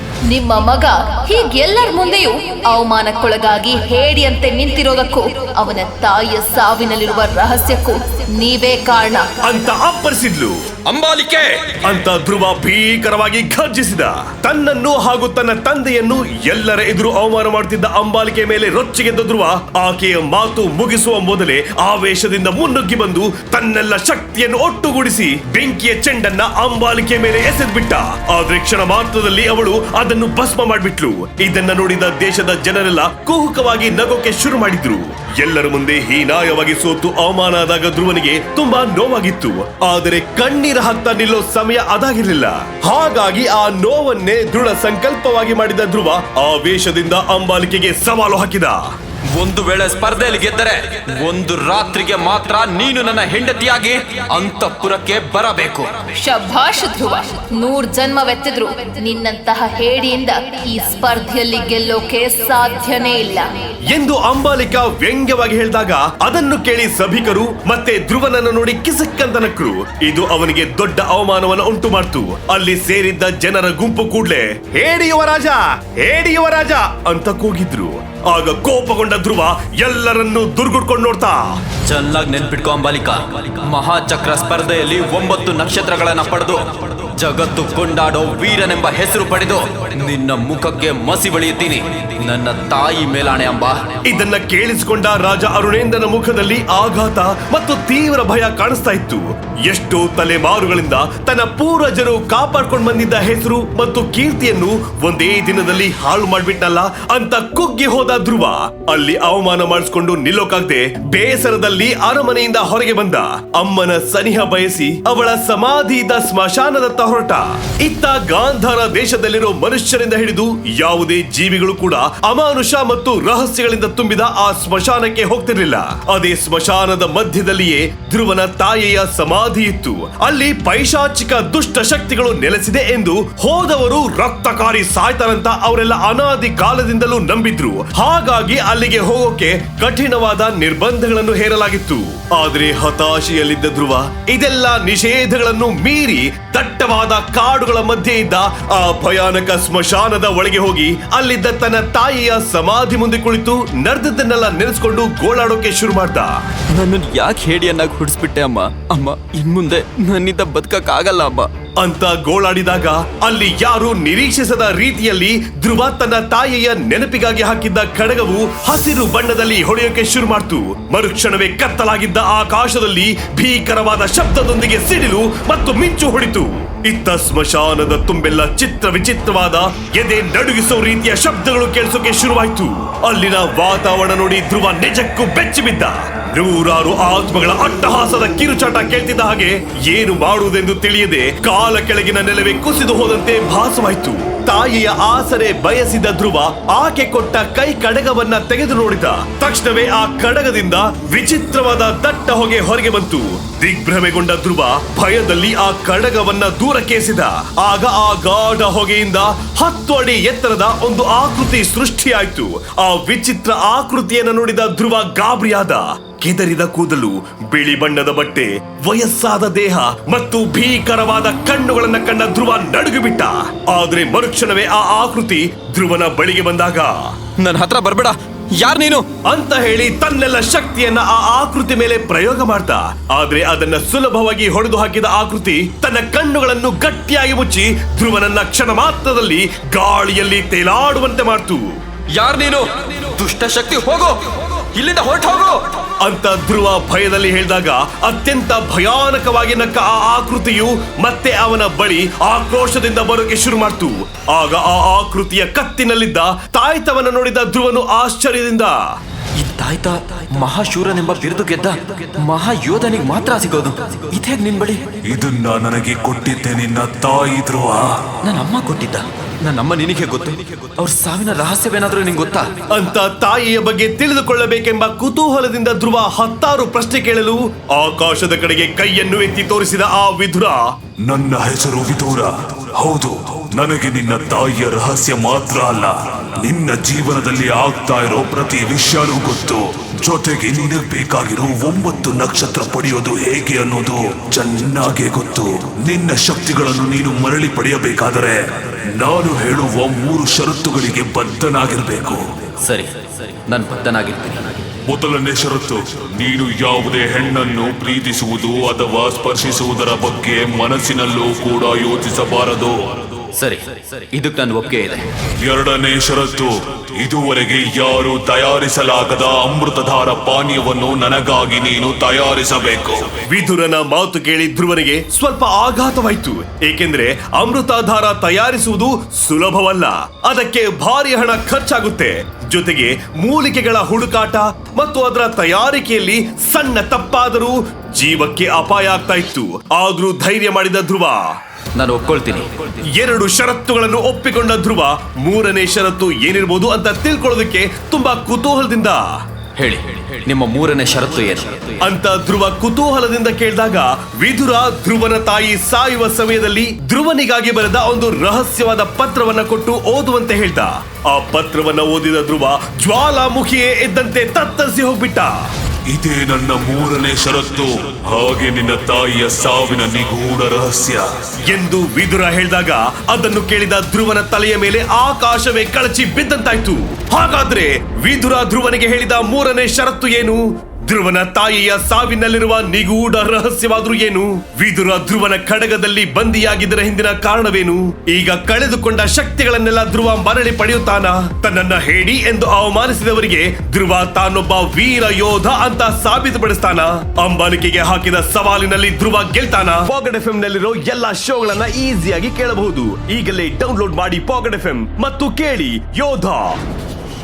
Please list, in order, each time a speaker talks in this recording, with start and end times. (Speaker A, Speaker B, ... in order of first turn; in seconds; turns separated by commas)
Speaker A: 0.2-9.3, Speaker B: 9.4-10.5, Speaker C: 10.9-11.9, Speaker B: 11.8-48.8, Speaker C: 49.3-56.1, Speaker A: 56.2-63.5, Speaker B: 63.9-81.6, Speaker C: 81.8-93.8, Speaker B: 94.0-156.4, Speaker C: 156.7-161.5, Speaker B: 161.8-227.1, Speaker C: 227.4-229.1, Speaker B: 229.2-241.8, Speaker C: 242.1-245.8, Speaker B: 246.0-258.9, Speaker C: 259.4-264.8, Speaker D: 265.1-268.1, Speaker C: 268.2-272.5, Speaker B: 272.7-280.7, Speaker D: 281.0-302.2, Speaker C: 302.6-304.6, Speaker D: 304.8-313.2, Speaker C: 313.4-315.0, Speaker D: 315.4-323.1, Speaker B: 323.3-341.4, Speaker C: 341.8-342.6, Speaker B: 342.9-349.0, Speaker C: 349.6-351.7, Speaker B: 351.8-365.3, Speaker D: 365.9-371.0, Speaker B: 371.4-406.6